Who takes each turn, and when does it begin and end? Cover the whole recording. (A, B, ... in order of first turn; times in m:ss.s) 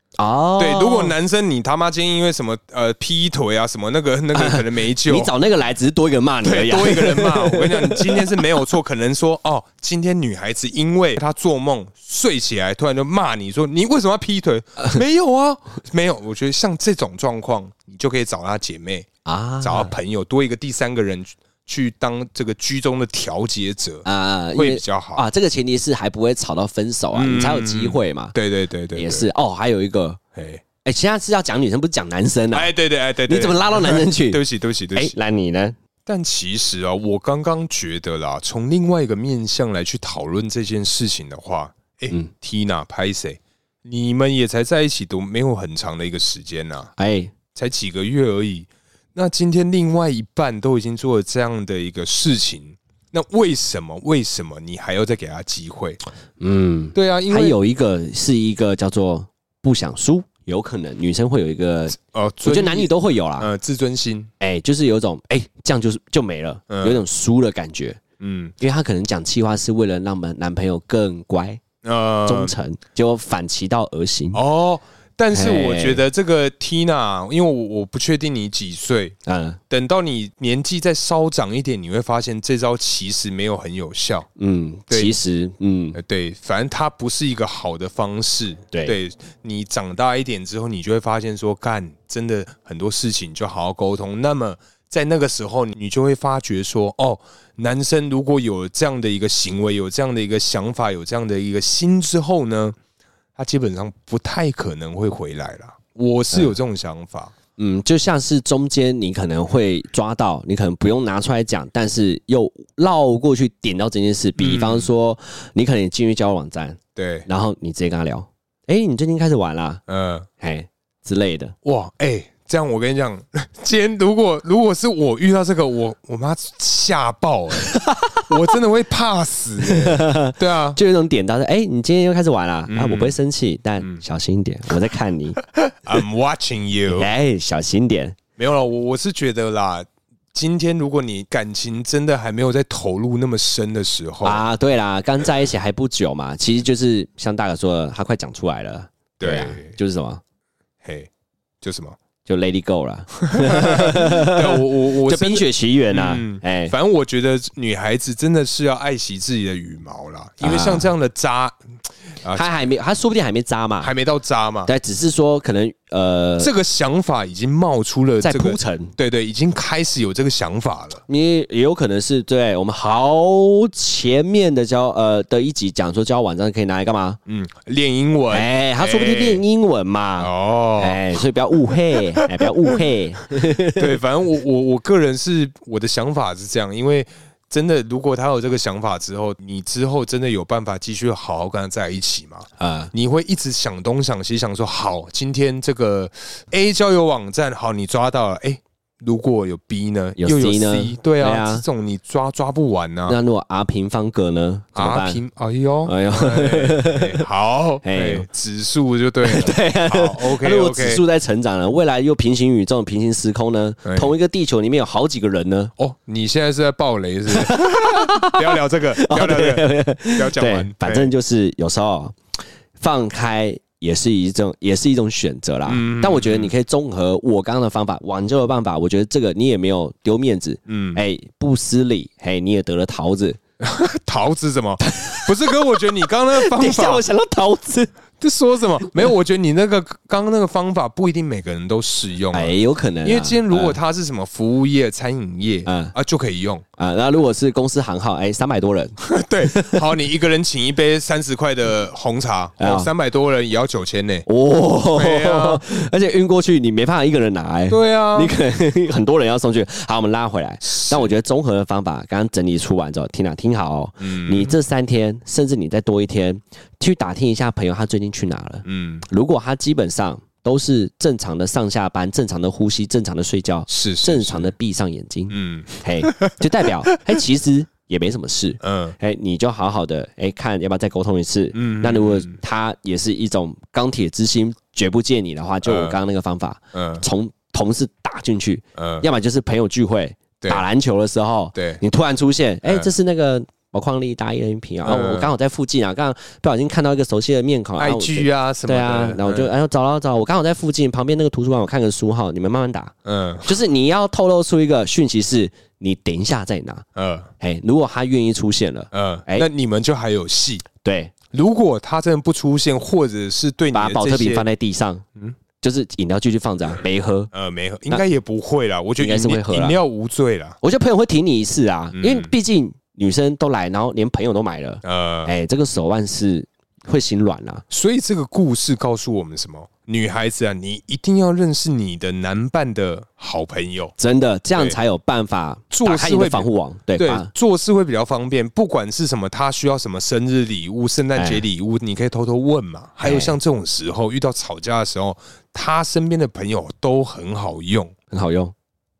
0:00.2-0:01.2 A
0:00.6-0:05.3 B
0:04.3-0:08.5 A
0:06.4-0:19.1 B
0:19.2-0:19.9 A
0:19.6-0:25.2 B
0:24.0-0:28.3 A
0:27.1-0:29.3 B
0:28.9-0:30.2 A
0:30.3-0:30.6 B
0:30.8-0:32.7 A
0:32.5-0:35.1 B
0:33.3-0:34.4 A
0:34.9-0:35.8 A
0:36.0-0:46.9 B
0:47.0-0:47.3 A
0:47.5-0:56.0 B
0:56.4-1:03.5 A
0:56.9-0:57.6 B
1:02.0-1:04.3 B
1:04.4-1:08.0 A
1:06.7-1:07.0 B
1:08.2-1:08.5 B
1:08.6-1:11.6 A
1:11.8-1:12.5 B
1:12.2-1:14.4 A
1:14.3-1:19.2 B
1:15.3-1:16.0 A
1:19.2-1:19.6 A
1:19.7-1:24.3 B
1:24.4-1:26.0 A
1:24.9-1:25.1 B
1:25.9-1:42.8 B
1:43.4-1:47.3 B
1:47.6-1:59.8 A
1:54.4-1:54.9 B
1:57.0-1:57.3 B
1:59.9-2:00.3 B
2:00.4-2:01.5 A
2:01.6-2:10.8 B
2:07.6-2:08.3 A
2:09.6-2:15.4 A
2:12.7-2:13.2 B
2:15.7-2:17.1 B
2:16.9-2:18.2 A
2:18.4-2:24.4 B
2:24.2-2:30.2 A
2:29.2-2:29.7 B
2:30.8-2:31.1 B
2:31.6-2:32.0 B
2:32.2-2:36.7 A
2:33.2-2:41.6 B
2:40.4-2:40.9 A
2:42.2-2:42.5 B
2:42.3-2:43.9 A
2:43.8-2:44.7 B
2:44.6-2:46.5 A
2:46.4-2:51.0 B
2:48.2-2:48.9 A
2:51.1-2:57.2 A
2:57.2-2:59.4 B
2:58.3-3:04.0 A
3:00.2-3:01.2 B
3:01.9-3:02.5 B
3:03.8-3:23.2 B
3:12.6-3:12.9 A
3:20.2-3:21.6 A
3:23.1-3:25.2 A
3:24.8-3:31.0 B
3:25.8-3:27.2 A
3:27.8-3:28.3 A
3:29.2-3:35.7 A
3:33.8-3:34.1 B
3:35.8-3:41.1 B
3:37.3-3:42.2 A
3:42.8-3:53.4 A
3:45.6-3:46.5 B
3:50.7-3:51.0 B
3:53.6-3:57.0 B
3:54.8-3:57.9 A
3:58.2-4:06.6 B
4:02.3-4:03.8 A
4:05.6-4:05.9 A
4:06.8-4:09.9 A
4:09.0-4:14.2 B
4:12.6-4:12.9 A
4:14.2-5:02.9 A
4:14.9-4:15.6 B
4:17.7-4:18.3 B
4:20.6-4:21.1 B
4:24.0-4:24.6 B
4:28.6-4:29.0 B
4:33.7-4:34.5 B
4:35.3-4:37.2 B
4:38.6-4:39.0 B
4:41.5-4:42.4 B
4:45.6-4:46.0 B
4:46.7-4:47.0 B
4:48.8-4:49.1 B
4:51.6-4:51.8 B
4:52.6-4:52.9 B
4:54.8-4:55.3 B
4:57.8-4:59.5 B
5:03.0-5:03.6 B
5:03.4-5:06.8 A
5:07.0-5:07.3 B
5:07.4-5:09.5 A
5:08.9-5:10.6 B
5:10.8-5:11.1 A
5:11.3-5:14.4 B
5:13.7-5:15.0 A
5:15.6-5:17.3 A
5:17.3-5:20.6 B
5:19.0-5:19.8 A
5:20.6-5:27.6 A
5:21.9-5:22.3 B
5:24.8-5:25.3 B
5:27.7-5:33.9 B
5:34.0-5:37.3 A
5:35.7-5:47.9 B
5:41.2-5:41.4 A
5:43.0-5:43.4 A
5:48.1-5:48.5 A